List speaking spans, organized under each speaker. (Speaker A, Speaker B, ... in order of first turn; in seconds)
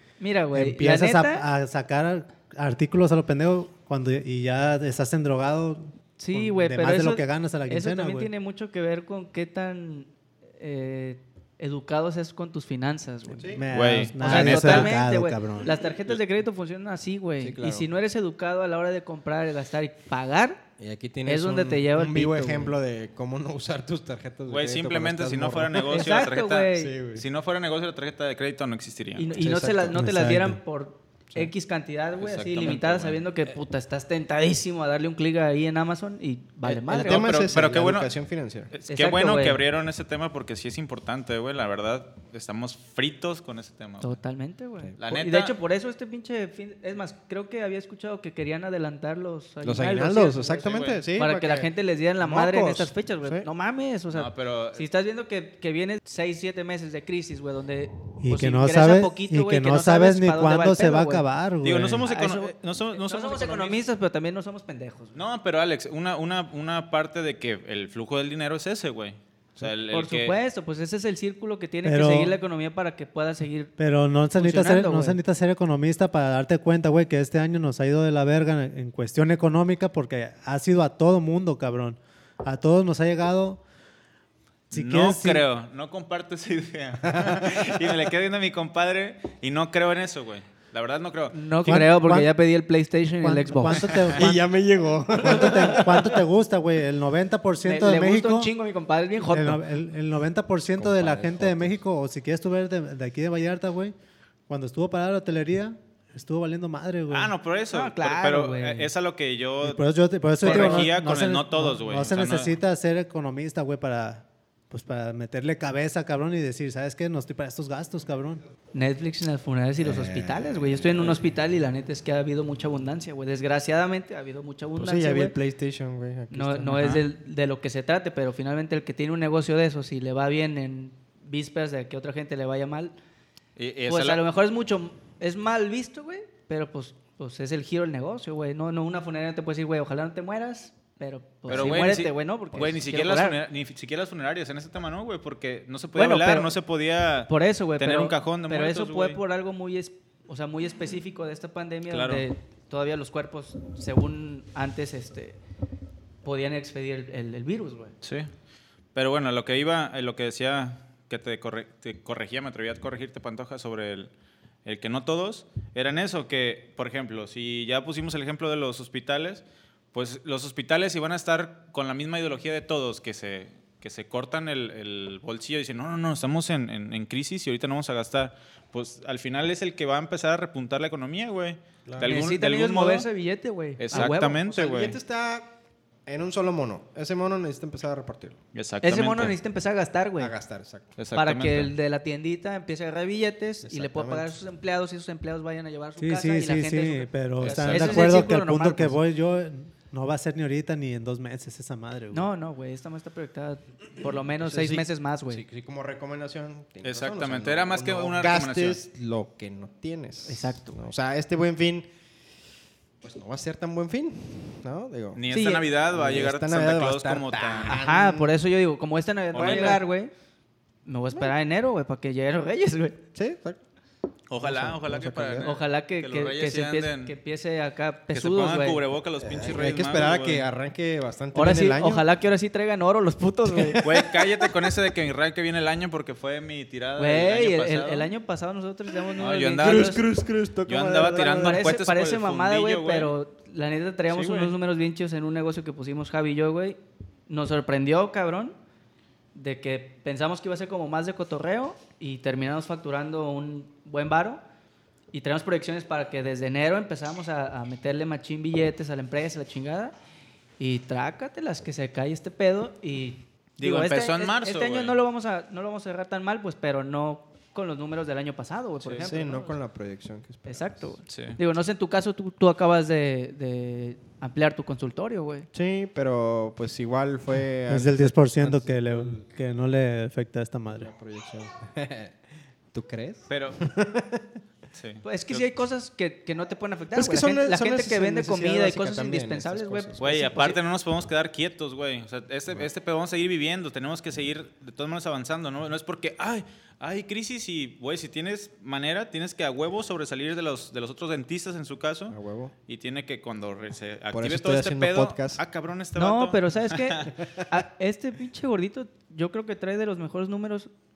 Speaker A: 0.2-1.5, 6.2-13.6, 14.2-20.6, 21.3-22.8, 25.9-26.9, 29.2-37.3, 38.9-39.6, 44.0-61.2, 62.0-65.2, 69.9-73.7, 74.4-75.2, 91.3-94.0, 97.6-99.6, 107.7-108.9, 110.4-110.9, 118.7-125.3, 126.3-132.9, 133.9-143.4, 145.9-146.6, 147.3-155.4, 156.2-157.9, 182.0-184.4, 188.8-190.3, 191.1-199.0, 202.1-205.4, 210.3-210.8, 215.3-215.7, 217.7-220.1, 220.8-223.0, 225.4-228.8, 231.3-234.1, 237.0-240.1, 241.2-246.8, 247.3-248.6, 249.3-254.4, 255.1-259.9, 260.6-269.6, 270.5-275.5, 285.0-290.6, 306.0-310.7
Speaker B: 0.5-8.3, 13.5-15.8, 29.9-30.6, 58.2-62.1, 71.8-72.4, 73.8-83.6, 84.7-85.4, 91.6-92.3, 93.2-94.4, 95.1-98.5, 99.3-103.9, 104.5-107.3, 109.6-118.4, 196.0-202.3, 277.7-280.9
Speaker C: 13.4-14.5, 17.4-17.9, 20.8-26.1, 26.7-27.2, 29.3-30.1, 36.9-38.7, 49.6-53.5, 87.1-87.7, 94.2-96.2, 100.7-101.8, 119.8-121.2, 124.8-126.8, 141.5-141.9, 181.9-182.2, 183.9-185.5, 186.1-188.4, 190.2-190.9, 193.7-194.4, 204.4-211.9, 213.0-215.2, 215.9-218.3, 219.3-219.8, 223.2-223.6, 224.4-225.5, 229.2-232.1, 239.6-241.6, 269.0-271.0, 275.5-279.2, 280.8-282.1, 282.7-284.3, 286.9-290.2, 302.1-302.5, 304.1-305.4, 307.2-307.4
Speaker D: 13.7-15.0, 24.5-29.3, 32.2-33.2, 36.7-38.1, 38.7-44.2, 45.0-45.5, 50.7-51.0, 54.1-54.8, 61.6-63.8, 65.2-70.4, 84.7-91.4, 93.9-94.2, 107.1-109.9, 110.4-112.5, 126.7-127.0, 133.6-134.2, 141.5-149.2, 151.9-152.3, 158.0-158.3, 158.9-164.1, 164.7-183.1, 183.8-185.0, 188.5-189.3, 191.0-191.7, 197.4-198.1, 206.8-208.8, 215.2-217.8, 219.3-219.8, 224.3-227.1, 228.1-230.5, 233.8-238.1, 239.2-240.1, 240.7-243.1, 244.1-244.6, 263.6-265.0, 271.1-271.4, 283.3-283.6, 284.7-285.5, 290.0-302.2, 302.7-307.1